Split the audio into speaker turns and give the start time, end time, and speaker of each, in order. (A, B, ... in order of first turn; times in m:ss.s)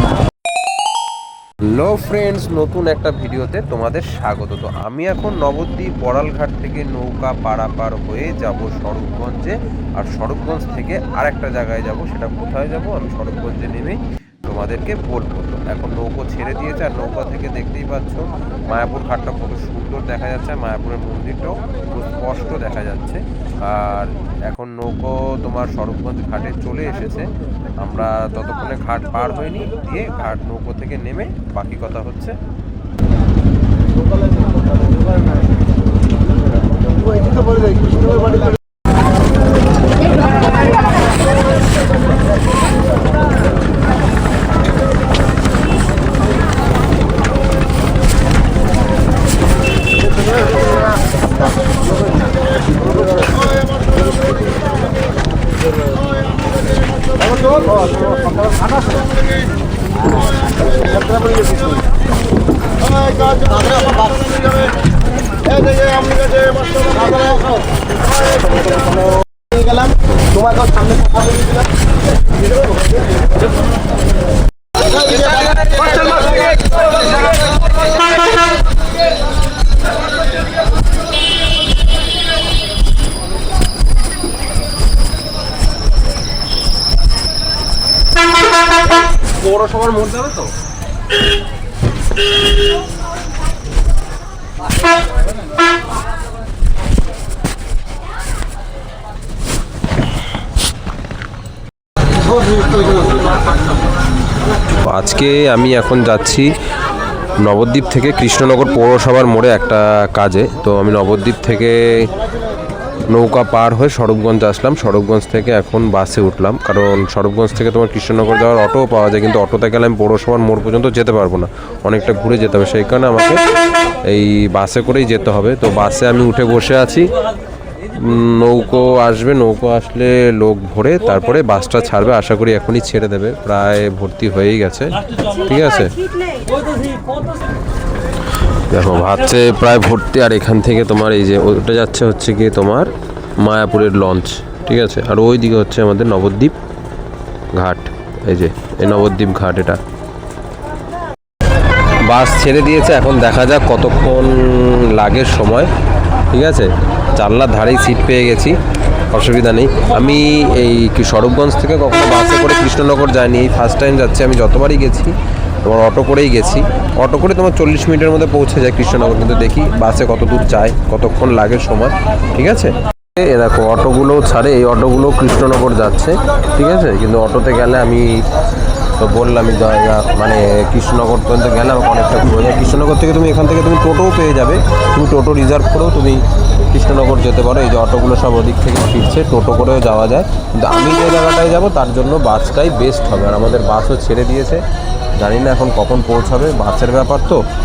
0:01.7-0:32.4 A
1:29.3-1:30.5 A
1:44.8-1:46.5 A
1:47.4-1:52.1 A
1:53.1-2:03.4 A
2:04.1-2:07.1 A
2:07.9-2:16.0 A
2:18.7-2:26.6 A
2:27.5-2:29.8 A
2:32.0-2:35.7 A
2:36.3-2:38.6 A
2:39.1-2:58.2 A
2:59.0-3:14.6 A
3:15.2-3:17.4 A